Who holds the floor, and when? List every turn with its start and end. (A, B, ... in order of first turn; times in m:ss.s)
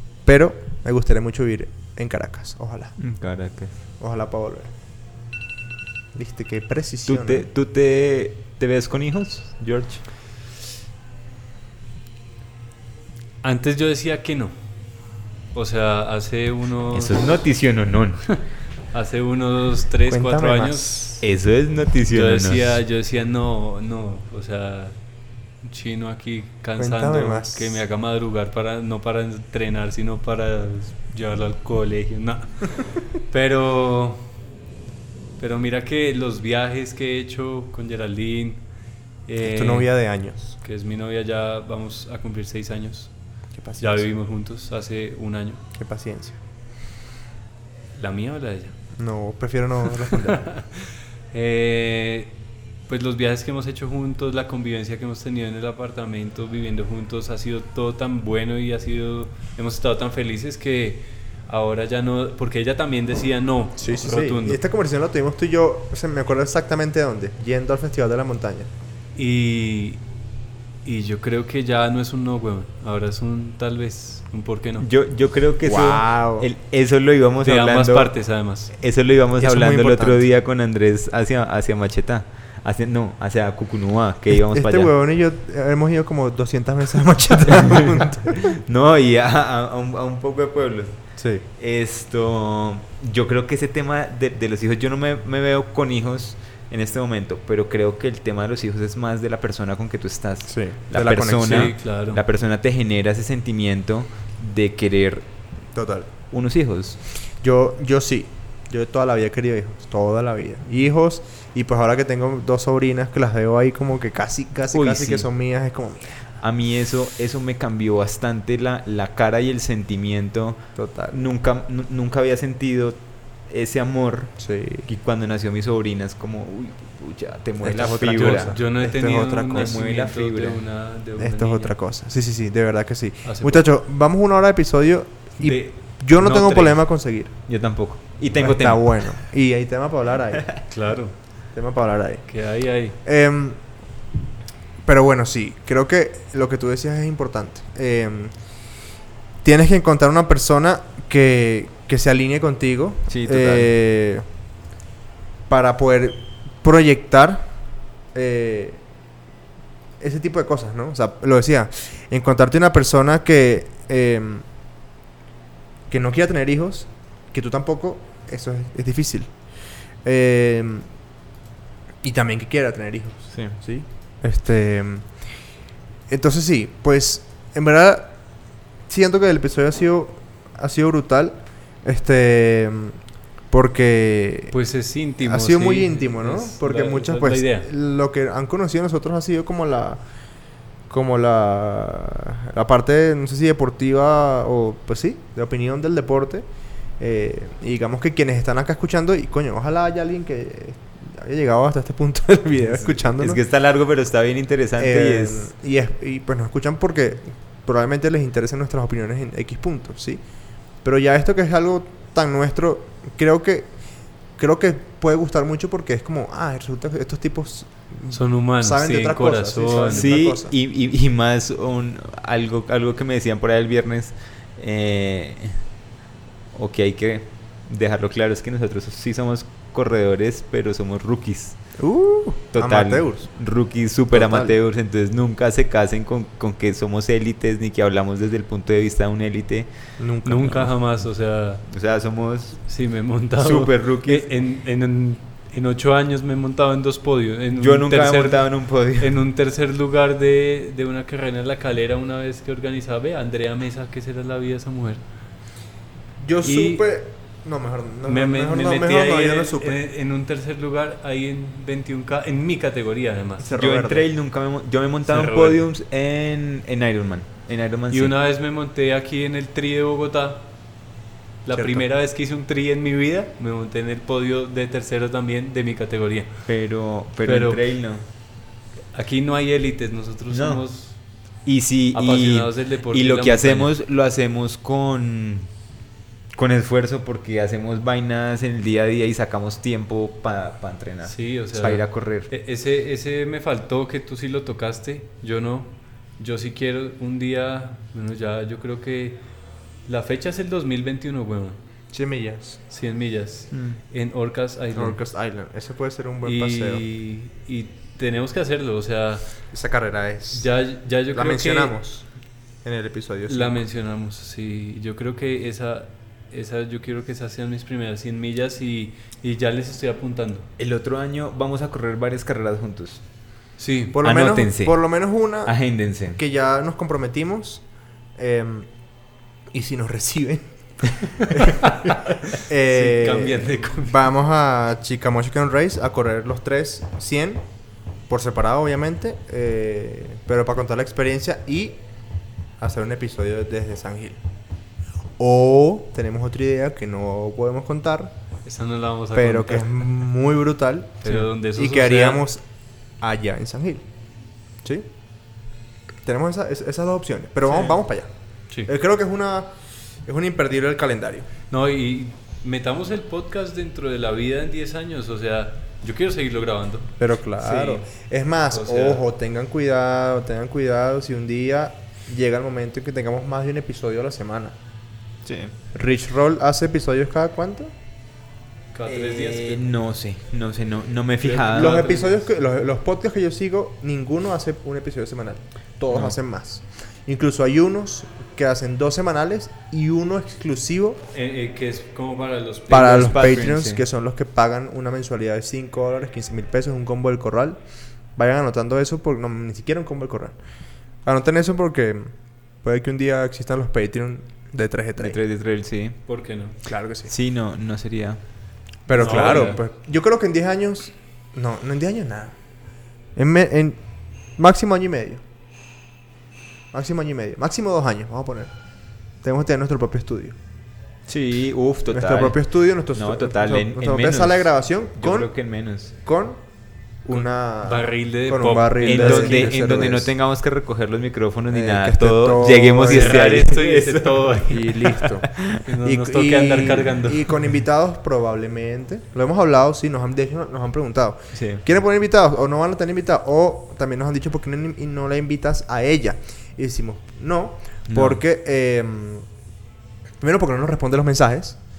0:00.2-0:03.0 A
0:03.0-0:03.8 B
0:04.0-0:04.7 A
0:06.1-0:07.4 A
0:07.0-0:10.0 B
0:13.4-0:14.6 C
0:15.5-0:17.3 C
0:16.9-0:18.3 B
0:18.9-0:21.1 C
0:20.1-0:21.2 A
0:21.2-0:22.8 B
0:22.1-0:25.0 C
0:25.6-0:34.3 C
0:26.8-0:27.8 A
0:35.4-0:38.6 C
0:39.2-0:39.9 C
0:39.4-0:40.5 A
0:40.6-0:43.1 C
0:43.5-0:44.0 A
0:43.8-0:45.6 C
0:45.7-0:46.4 A
0:48.0-0:48.8 C
0:49.0-0:50.5 A
0:50.3-0:52.3 C
0:52.9-1:04.6 C
1:03.8-1:08.7 A
1:09.2-1:10.0 C
1:10.8-1:14.9 C
1:14.8-1:18.1 B
1:15.6-1:16.5 A
1:17.4-1:18.7 C
1:18.7-1:24.9 B
1:19.4-1:20.3 A
1:24.3-1:28.6 A
1:28.6-1:31.0 B
1:31.2-1:31.4 A
1:31.6-1:45.3 B
1:40.5-1:41.8 A
1:41.4-1:42.2 C
1:45.7-1:46.1 A
1:46.3-1:47.0 B
1:47.4-1:56.2 A
1:54.7-1:55.3 B
1:56.4-2:08.6 B
2:00.8-2:01.3 A
2:04.4-2:04.9 A
2:07.6-2:09.8 A
2:08.1-2:11.7 C
2:09.5-2:10.6 B
2:11.2-2:17.4 A
2:13.2-2:13.6 C
2:15.4-2:16.8 C
2:17.5-2:19.1 B
2:18.4-2:20.7 A
2:20.7-2:21.1 C
2:21.5-2:22.3 A
2:22.3-2:23.0 C
2:23.0-2:23.6 A
2:24.8-2:28.3 A
2:29.4-2:34.2 A
2:33.1-2:33.7 B
2:35.5-2:37.5 A
2:38.1-2:38.8 A
2:40.0-2:44.4 A
2:45.9-2:49.3 A
2:50.0-2:50.9 A
2:52.0-2:55.1 A
2:53.3-2:53.6 B
2:56.1-2:58.2 A
2:58.9-3:03.0 A
3:03.5-3:04.5 A
3:04.5-3:07.7 C
3:05.2-3:10.0 A
3:10.9-3:16.4 A
3:17.0-3:23.4 A
3:22.7-3:25.5 B
3:24.8-3:30.2 A
3:30.8-3:33.7 A
3:34.4-3:40.5 A
3:38.1-3:40.1 C
3:39.9-3:45.6 B
3:46.5-3:51.6 B
3:51.8-3:53.3 A
3:52.5-3:59.7 B
3:54.1-3:54.5 A
4:00.0-4:00.7 A
4:00.2-4:01.6 C
4:01.6-4:02.6 B
4:02.6-4:15.0 C
4:03.4-4:04.3 B
4:07.6-4:09.2 B
4:16.2-4:19.8 A
4:16.4-4:16.8 C
4:18.0-4:23.5 C
4:23.4-4:24.1 A
4:23.5-4:28.1 B
4:25.0-4:25.6 C
4:27.9-4:30.5 C
4:31.4-4:36.4 C
4:31.5-4:31.8 A
4:36.5-4:38.0 B
4:37.2-4:37.7 C
4:38.9-4:41.0 C
4:40.3-4:40.6 B
4:41.4-4:45.5 B
4:41.9-4:43.7 C
4:46.3-4:52.3 B
4:51.0-4:59.2 C
4:59.8-5:01.6 C
5:01.9-5:02.6 A
5:02.7-5:05.0 C
5:03.5-5:03.8 B
5:04.7-5:06.8 A
5:06.2-5:09.3 C
5:09.5-5:10.5 A
5:10.3-5:11.7 C
5:11.1-5:12.0 A
5:12.6-5:13.6 A
5:13.3-5:20.5 C
5:20.6-5:23.0 B
5:23.6-5:24.0 C
5:23.9-5:27.6 A
5:24.0-5:24.8 B
5:25.4-5:26.2 B
5:28.2-5:28.7 A
5:29.5-5:37.4 A
5:31.2-5:32.0 C
5:32.6-5:34.0 C
5:38.1-5:41.8 A
5:42.6-5:44.2 A
5:45.2-5:48.1 A
5:48.4-5:49.8 C
5:49.1-5:52.4 A
5:51.0-5:52.2 C
5:53.0-5:53.8 A
5:56.0-5:58.1 A
5:57.5-5:57.8 C
5:58.6-5:59.5 A
6:00.0-6:01.3 A
6:01.5-6:06.9 C
6:07.0-6:14.5 A
6:07.4-6:07.8 B
6:08.5-6:09.0 C
6:15.2-6:15.5 B
6:15.7-6:17.7 A
6:18.7-6:19.6 C
6:18.8-6:21.9 B
6:21.2-6:22.3 C
6:21.5-6:31.0 A
6:25.9-6:26.2 B
6:31.1-6:33.4 C
6:32.7-6:37.6 A
6:32.9-6:33.8 B
6:38.2-6:40.4 A
6:41.0-6:45.2 A
6:45.0-6:46.0 B
6:46.1-6:46.6 C
6:46.6-6:47.1 A
6:47.0-6:48.2 B
6:48.9-6:52.4 A
6:49.0-6:49.6 C
6:49.0-6:49.6 B
6:53.2-6:53.8 A
6:54.4-6:55.2 A
6:56.7-6:58.5 A
6:59.2-7:00.4 A
7:01.1-7:02.4 B
7:01.9-7:06.4 A
7:02.9-7:05.9 B
7:07.0-7:10.1 A
7:07.1-7:09.5 C
7:08.8-7:15.6 B
7:11.5-7:13.6 A
7:12.9-7:14.7 C
7:14.5-7:15.3 A
7:15.6-7:17.4 C
7:15.8-7:29.2 A
7:21.3-7:21.6 B
7:27.9-7:28.2 B
7:30.2-7:31.6 A